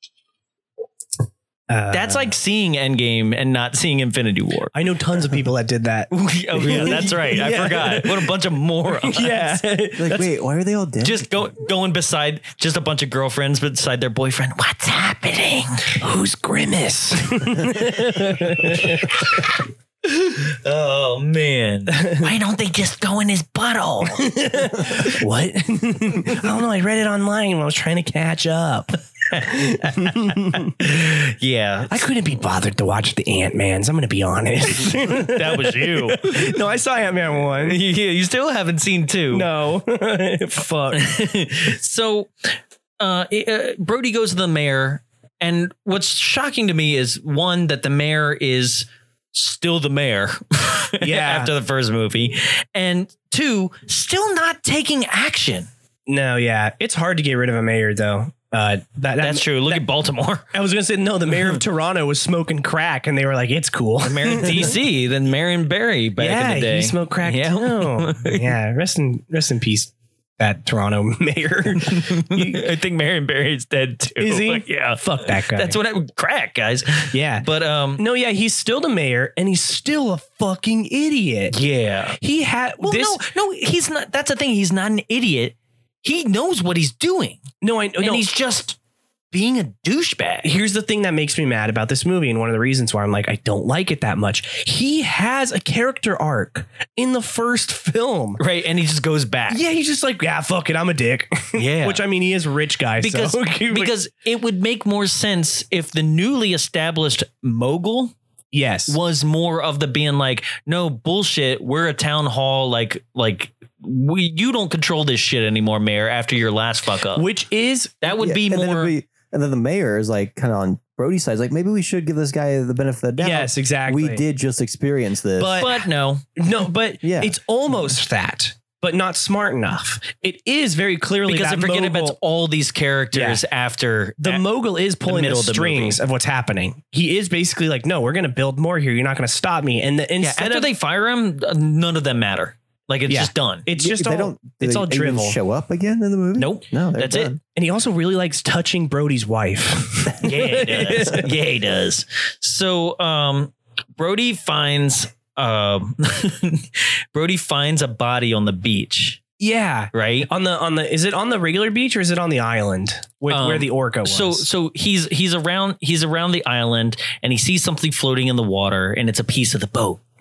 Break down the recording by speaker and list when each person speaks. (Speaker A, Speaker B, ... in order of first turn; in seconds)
Speaker A: 1.7-2.3, 4.7-8.3, 9.0-10.3, 16.0-19.1, 21.9-22.3, 24.1-30.8, 31.9-37.8, 39.3-41.1, 51.0-51.5, 56.1-59.8, 60.5-64.8, 66.2-72.6, 74.2-75.8, 77.1-77.5, 78.0-81.6, 82.2-83.2, 87.6-88.2, 90.4-98.4, 99.5-103.9, 108.5-109.0, 117.2-118.0, 123.2-124.2, 125.4-125.8, 126.4-132.2, 133.1-133.4, 134.2-140.7, 143.1-145.4, 147.6-151.3, 159.4-164.4
Speaker B: 1.9-4.7, 6.1-9.7, 11.0-16.0, 18.2-19.5, 20.0-24.3, 24.9-25.2, 29.3-32.1, 34.8-36.6, 37.6-39.5, 41.0-42.3, 43.0-55.7, 59.2-60.5, 64.0-68.5, 71.8-78.0, 81.5-82.2, 82.8-87.5, 88.0-88.8, 89.3-90.5, 98.4-99.6, 101.5-102.0, 103.0-108.1, 108.9-117.3, 118.0-118.9, 125.6-126.2, 131.3-134.4, 135.1-136.0, 140.2-143.7, 146.4-147.3, 150.2-159.2, 159.9-160.3, 163.3-170.0
Speaker C: 10.0-11.3, 118.2-125.6, 127.0-127.3, 143.8-147.4